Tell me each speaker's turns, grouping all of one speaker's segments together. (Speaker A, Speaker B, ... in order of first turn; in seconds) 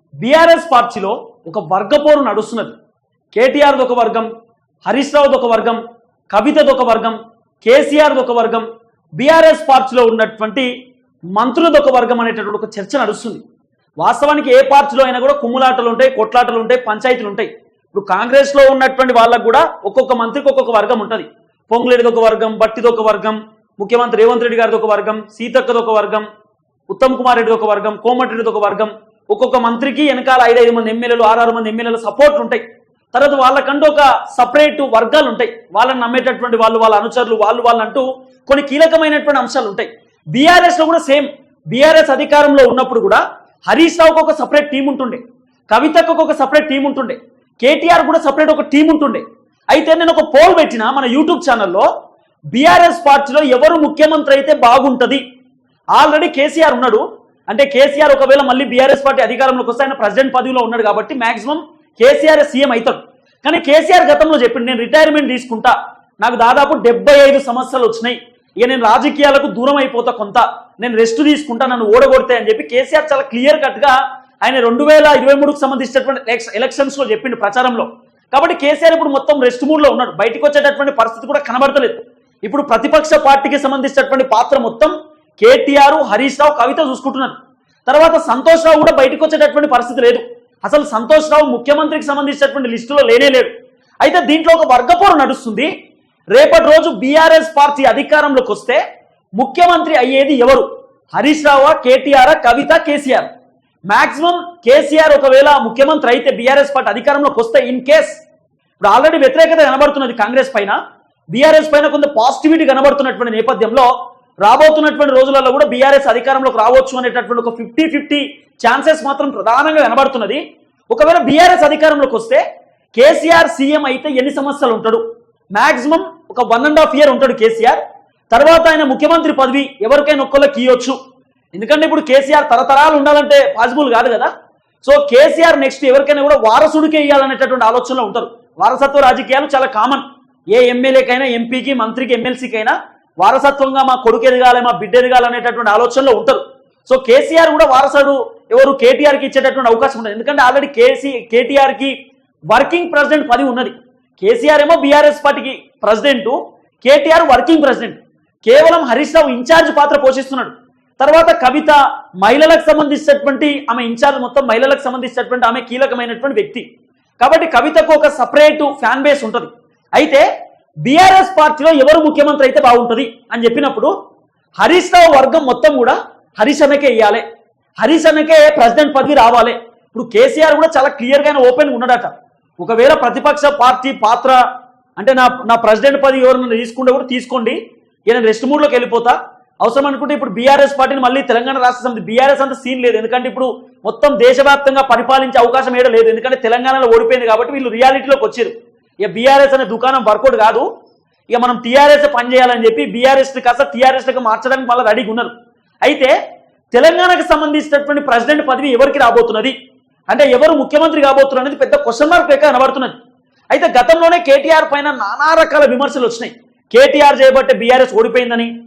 Speaker A: 0.2-2.8, 3.3-4.3, 4.8-8.7, 9.2-10.7, 11.3-13.4, 14.0-26.3, 26.9-51.9, 52.5-55.2, 55.9-93.5, 94.0-95.7, 96.3-98.8, 99.4-103.3, 103.9-108.2, 108.8-110.8, 111.3-113.9, 114.4-122.4, 122.9-125.0, 125.5-127.8, 128.3-131.0, 131.5-134.3, 134.8-151.9, 152.5-166.6, 167.2-170.2, 170.8-173.9, 174.6-177.2, 177.8-184.4, 185.0-198.5, 199.0-200.7, 201.3-205.3, 205.8-206.1, 206.7-209.5, 210.1-212.9, 213.5-218.5